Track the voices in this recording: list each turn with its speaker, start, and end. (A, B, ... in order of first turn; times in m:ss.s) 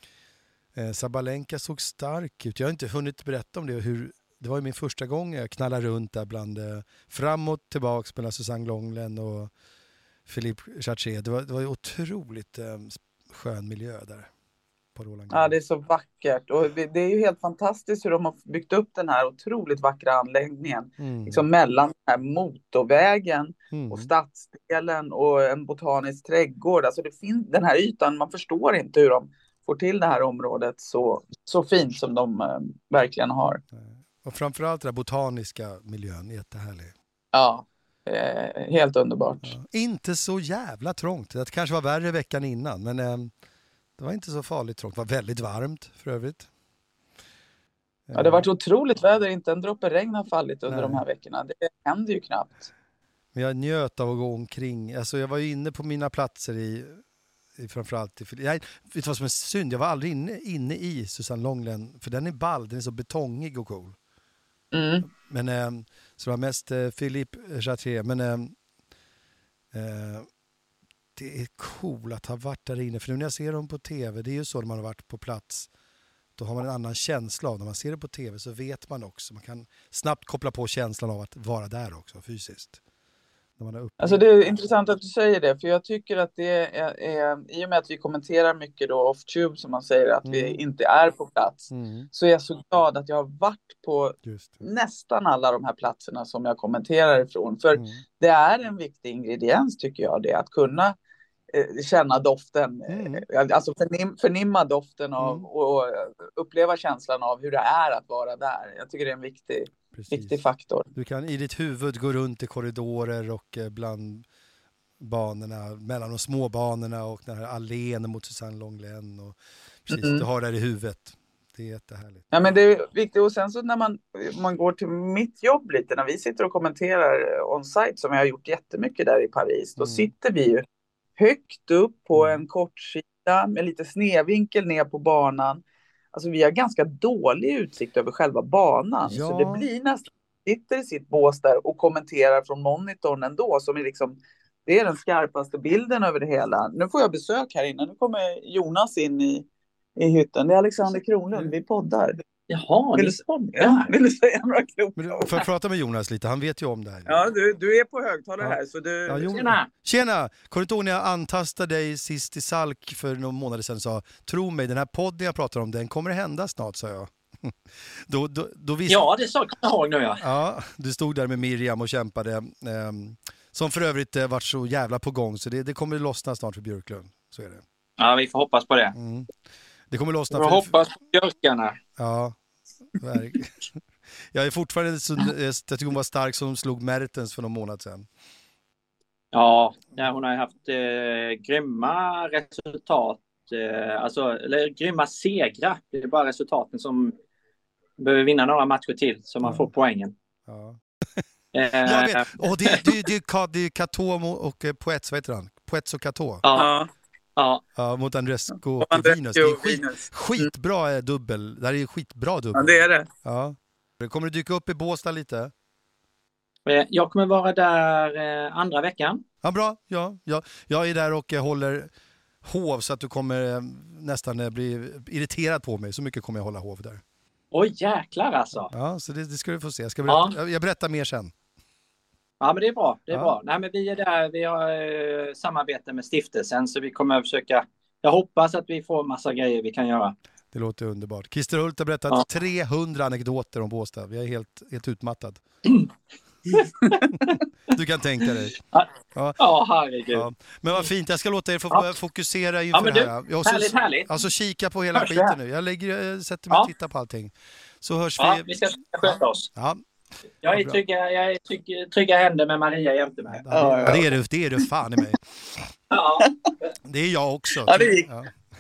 0:00.8-0:09.5 A
0:10.3-0:14.3 A
0:15.0-0:15.6 A
0:15.3-0:33.6 B
0:21.0-0:21.4 A
0:23.7-0:24.1 A
0:33.7-0:36.9 A
0:37.3-0:39.6 B
0:39.4-0:43.3 A
0:44.0-0:46.5 A
0:48.1-0:48.4 A
0:48.2-0:52.7 B
0:50.7-0:51.0 A
0:53.3-0:57.0 A
0:57.6-1:04.0 A
1:04.7-1:05.1 B
1:05.1-1:08.5 A
1:09.7-1:10.3 A
1:11.2-1:15.7 A
1:16.4-1:22.8 A
1:23.6-1:24.6 A
1:24.0-1:41.0 B
1:30.2-1:30.6 A
1:31.7-1:32.1 A
1:34.2-1:34.6 A
1:37.7-1:38.0 A
1:41.5-1:50.9 B
1:42.9-1:43.2 A
1:45.2-1:45.5 A
1:49.9-1:50.4 A
1:50.9-1:54.2 A
1:55.0-2:02.6 A
1:59.9-2:00.3 B
2:02.3-2:10.6 B
2:09.8-2:10.1 A
2:11.2-2:15.6 B
2:12.2-2:12.4 A
2:16.1-2:32.2 B
2:19.0-2:19.7 A
2:32.5-2:33.9 C
2:33.0-2:35.5 B
2:35.0-2:37.3 A
2:37.1-2:39.3 B
2:38.4-2:49.1 A
2:39.3-2:39.7 C
2:48.9-2:50.2 C
2:50.2-2:57.6 A
2:58.0-2:58.9 C
2:58.9-2:59.3 A
2:59.9-3:00.7 A
3:00.3-3:01.8 C
3:02.0-3:02.4 A
3:03.0-3:03.7 A
3:04.3-3:08.1 A
3:09.3-3:17.1 C
3:18.0-3:20.1 C
3:19.4-3:19.7 A
3:20.5-3:21.2 A
3:21.5-3:22.9 C
3:21.8-3:26.4 A
3:26.4-3:26.7 C
3:26.5-3:26.9 B
3:27.4-3:27.6 C
3:27.8-3:35.5 A
3:28.8-3:30.5 B
3:32.5-3:33.1 B
3:36.7-3:39.2 C
3:39.4-3:41.9 A
3:42.4-3:47.0 A
3:47.5-3:48.7 C
3:48.7-3:51.3 A
3:50.1-3:50.4 C
3:52.4-4:00.2 C
3:53.1-3:53.4 A
4:00.5-4:05.4 A
4:06.5-4:07.3 C
4:07.7-4:08.6 A
4:08.7-4:10.3 C
4:09.2-4:09.4 A
4:10.1-4:18.6 A
4:12.7-4:14.2 C
4:14.9-4:15.4 C
4:18.2-4:19.5 C
4:19.6-4:19.8 A
4:20.4-4:24.0 C
4:20.5-4:20.8 A
4:23.3-4:25.3 A
4:23.5-4:24.1 B
4:25.9-4:26.3 C
4:26.8-4:28.4 A
4:27.6-4:28.1 B